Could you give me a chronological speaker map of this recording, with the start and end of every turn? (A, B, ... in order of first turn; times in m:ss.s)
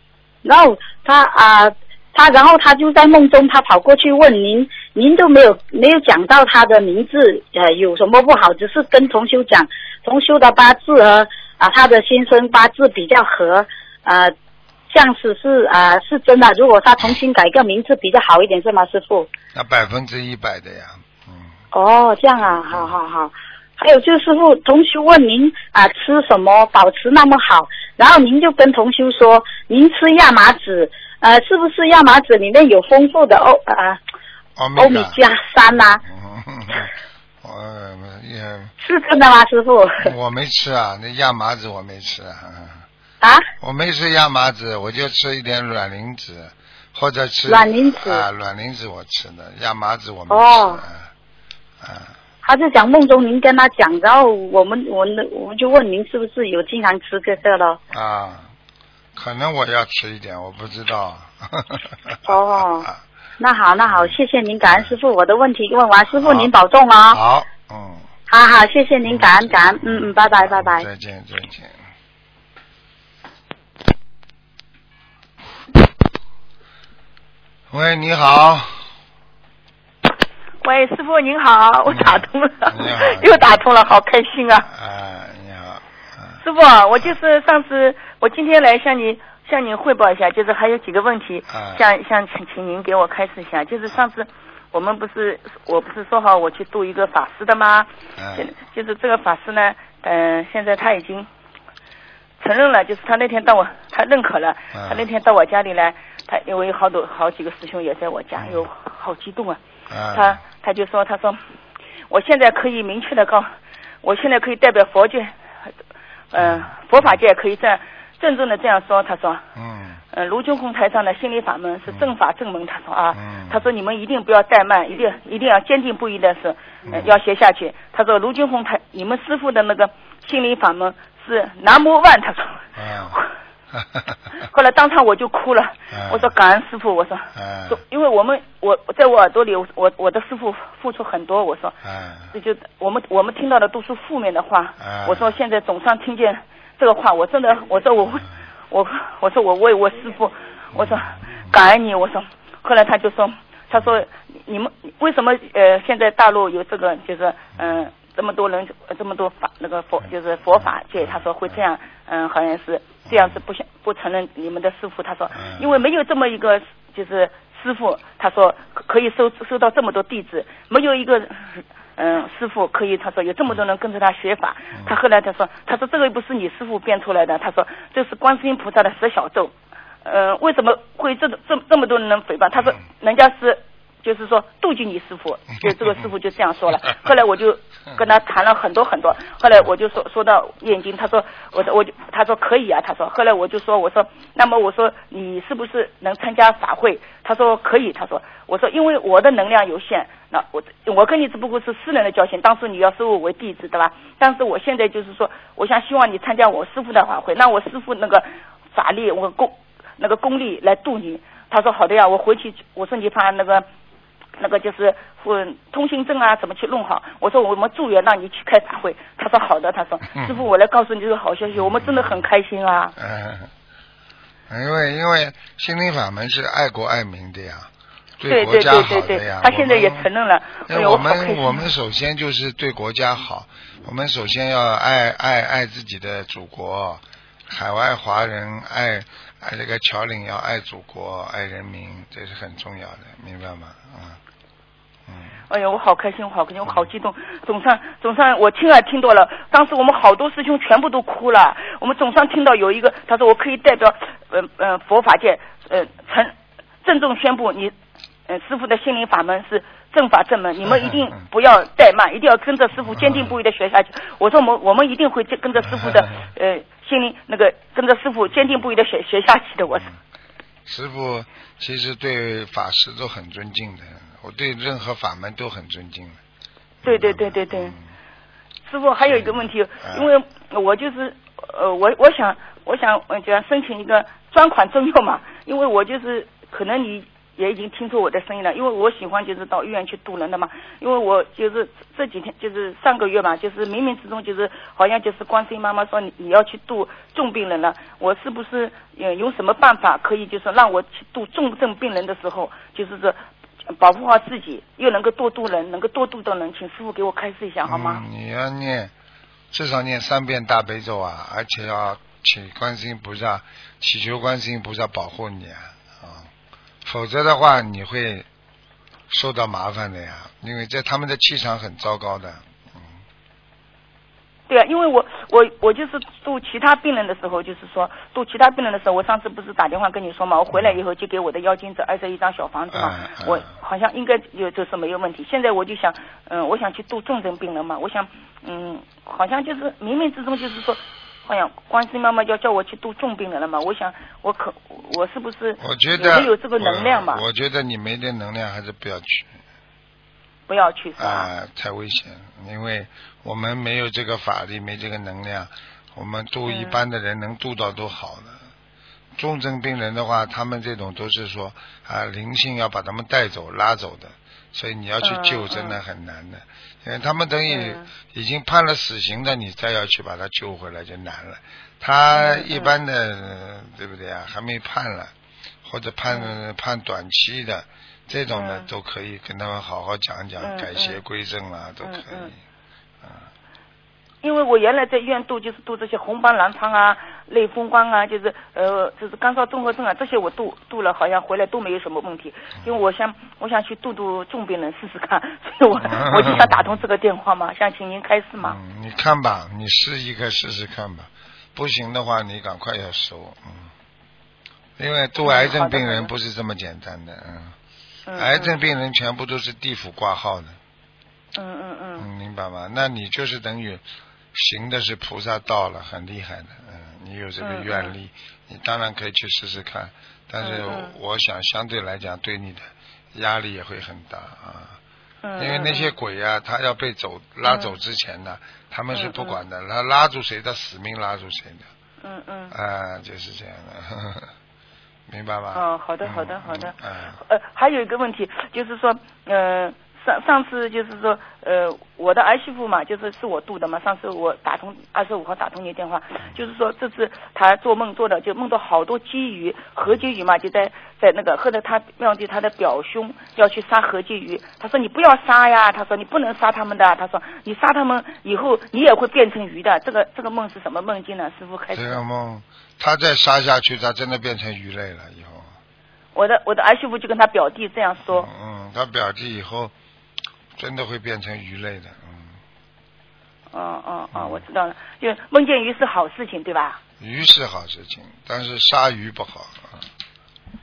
0:00.4-0:14.3 A
0:14.9-0:19.3 A
0:19.5-0:21.5 B
0:21.7-0:34.0 A
0:22.4-0:22.9 B
0:34.6-0:35.2 B
0:34.8-0:36.0 A
0:35.7-0:36.9 B
0:37.4-0:38.7 B
0:38.8-0:40.1 A
0:40.0-0:42.8 B
0:43.2-0:43.4 A
0:43.6-0:51.1 B
0:47.5-0:48.2 A
0:50.3-0:50.8 A
0:51.8-0:52.1 B
0:52.4-0:57.8 A
0:57.9-0:58.5 B
0:59.1-1:03.0 B
1:02.3-1:02.9 A
1:03.4-1:07.2 A
1:03.9-1:04.9 B
1:06.1-1:06.5 B
1:07.1-1:08.0 B
1:08.3-1:10.9 A
1:09.0-1:11.8 B
1:17.7-1:18.9 B
1:20.6-1:24.7 C
1:21.9-1:23.6 B
1:24.7-1:26.4 B
1:26.4-1:41.3 C
1:31.5-1:31.8 B
1:38.2-1:38.5 B
1:42.4-1:49.6 C
1:44.7-1:45.0 B
1:48.4-1:48.6 B
1:49.9-1:50.4 B
1:50.1-1:51.4 C
1:52.1-1:53.5 C
1:54.0-1:55.3 C
1:56.3-1:59.4 C
1:56.4-1:57.1 B
1:59.5-2:00.0 B
2:00.1-2:13.3 C
2:03.1-2:03.6 B
2:06.9-2:07.1 B
2:12.8-2:13.2 B
2:13.7-2:14.2 B
2:14.4-2:21.8 C
2:15.9-2:16.3 B
2:17.3-2:17.8 B
2:21.8-2:22.3 B
2:22.3-2:59.5 C
2:24.8-2:25.3 B
2:30.7-2:31.5 B
2:43.1-2:43.4 B
2:45.3-2:45.7 B
3:00.0-3:33.6 C
3:34.4-3:42.9 C
3:40.1-3:40.4 B
3:41.6-3:42.2 B
3:43.0-3:43.5 B
3:44.5-3:50.1 B
3:48.3-3:51.7 C
3:50.7-4:04.2 B
4:05.5-4:17.7 C
4:18.3-4:29.9 C
4:23.0-4:23.2 B
4:25.7-4:26.0 B
4:30.6-4:36.2 B
4:36.8-4:37.8 B
4:36.8-4:37.8 C
4:38.7-5:03.2 C
4:39.1-4:40.1 B
5:03.7-5:08.0 C
5:07.6-5:08.9 B
5:09.5-5:16.3 B
5:16.8-5:18.2 B
5:19.1-5:22.8 B
5:24.5-5:47.2 C
5:32.7-5:33.5 B
5:45.6-5:49.3 B
5:50.5-5:51.3 C
5:51.0-5:58.4 B
5:56.5-5:56.8 C
5:59.2-6:15.1 B
6:05.0-6:05.8 C
6:07.5-6:07.9 C
6:12.1-6:12.7 C
6:15.6-6:22.4 B
6:16.1-6:16.3 C
6:18.3-6:18.7 C
6:20.4-6:21.0 C
6:21.8-6:22.3 C
6:24.2-6:38.6 C
6:35.8-6:36.6 B
6:38.4-6:43.7 B
6:44.8-6:47.5 B
6:45.2-6:46.1 C
6:48.1-6:48.6 C
6:48.1-6:50.6 B
6:51.3-6:52.1 C
6:52.0-7:04.8 B
6:57.4-6:57.9 C
7:00.4-7:00.9 C
7:05.2-7:05.9 C
7:05.4-7:11.6 B
7:07.4-7:07.8 C
7:08.9-7:09.4 C
7:12.0-7:12.5 C
7:12.5-7:14.3 B
7:15.1-7:17.2 B
7:15.5-7:42.0 C
7:41.7-7:45.5 B
7:46.1-7:48.3 C
7:48.1-7:49.7 B
7:50.6-7:52.4 B
7:53.5-7:56.8 C
7:54.1-7:54.4 B
7:57.0-7:59.9 B